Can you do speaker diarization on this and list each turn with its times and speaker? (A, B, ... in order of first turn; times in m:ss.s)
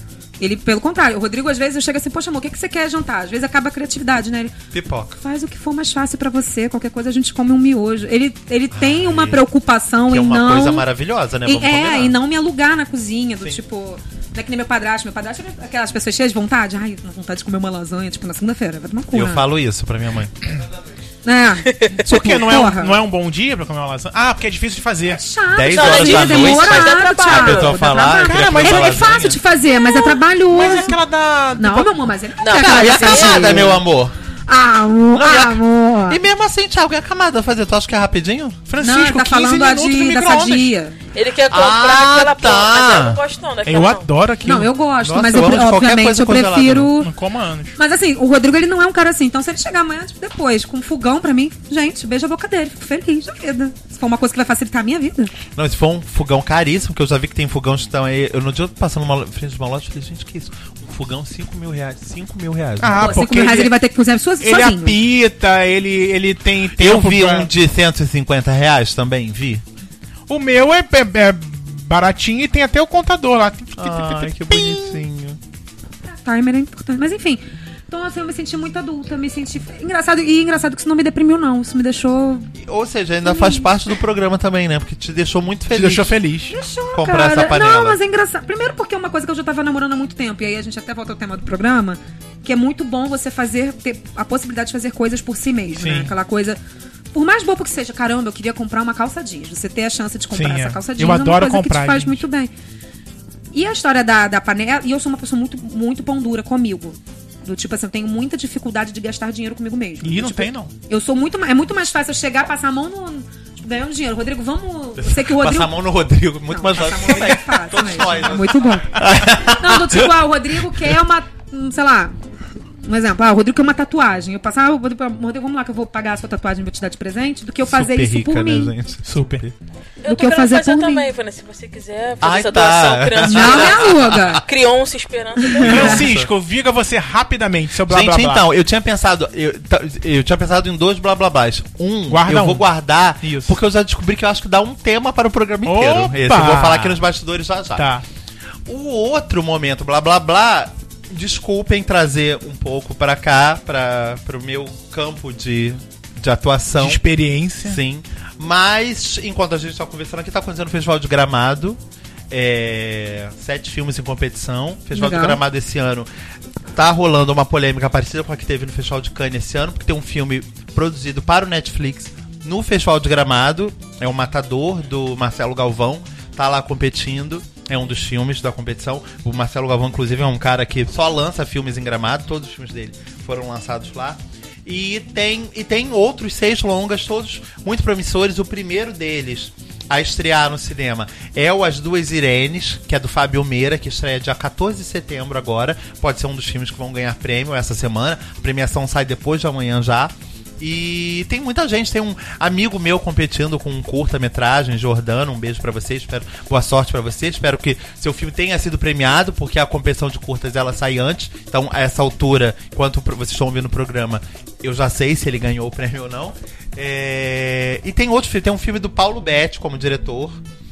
0:00.4-0:04.6 A
0:04.7-0:05.2 B
0:05.2-0:10.9 A
0:08.7-0:09.4 B
0:10.1-0:12.2 B
0:11.4-0:19.5 A
0:19.1-0:20.4 B
0:21.2-0:23.0 A
0:21.7-0:21.9 C
0:22.0-0:25.2 D
0:25.1-0:31.0 A
0:25.5-0:29.4 B
0:25.7-0:27.8 C
0:27.9-0:32.0 D
0:31.6-0:33.8 A
0:32.4-0:33.6 C
0:32.5-0:34.2 B
0:34.5-0:36.2 A
0:35.1-0:38.6 B
0:38.7-0:40.7 D
0:38.8-0:41.0 A
0:41.2-0:44.1 C
0:41.5-0:43.2 B
0:43.7-0:44.7 D
0:44.4-0:47.1 A
0:45.0-0:46.9 B
0:47.0-0:47.8 D
0:47.8-0:55.3 A
0:55.6-1:03.2 B
1:02.8-1:03.7 D
1:03.0-1:05.0 A
1:04.4-1:07.5 D
1:06.8-1:09.6 B
1:10.3-1:15.0 D
1:13.8-1:15.4 B
1:16.1-1:22.5 A
1:22.6-1:26.2 B
1:23.2-1:23.7 A
1:25.7-1:26.6 D
1:26.5-1:36.6 A
1:26.9-1:28.0 B
1:35.8-1:36.1 D
1:37.1-1:42.5 A
1:40.3-1:42.2 D
1:43.5-2:02.1 A
1:50.0-1:50.7 D
1:55.0-2:00.2 B
2:02.8-2:08.7 A
2:07.6-2:09.6 B
2:09.0-2:09.4 D
2:10.0-2:16.0 C
2:10.0-2:11.1 A
2:12.2-2:14.4 B
2:13.2-2:14.4 A
2:15.4-2:16.0 A
2:15.6-2:16.3 B
2:15.6-2:18.4 D
2:17.9-2:27.9 B
2:22.1-2:22.6 D
2:23.2-2:23.6 D
2:25.7-2:27.0 D
2:27.8-2:28.0 D
2:28.7-2:37.0 B
2:36.8-2:37.8 D
2:37.6-2:46.1 B
2:44.9-2:45.4 A
2:46.7-3:40.4 B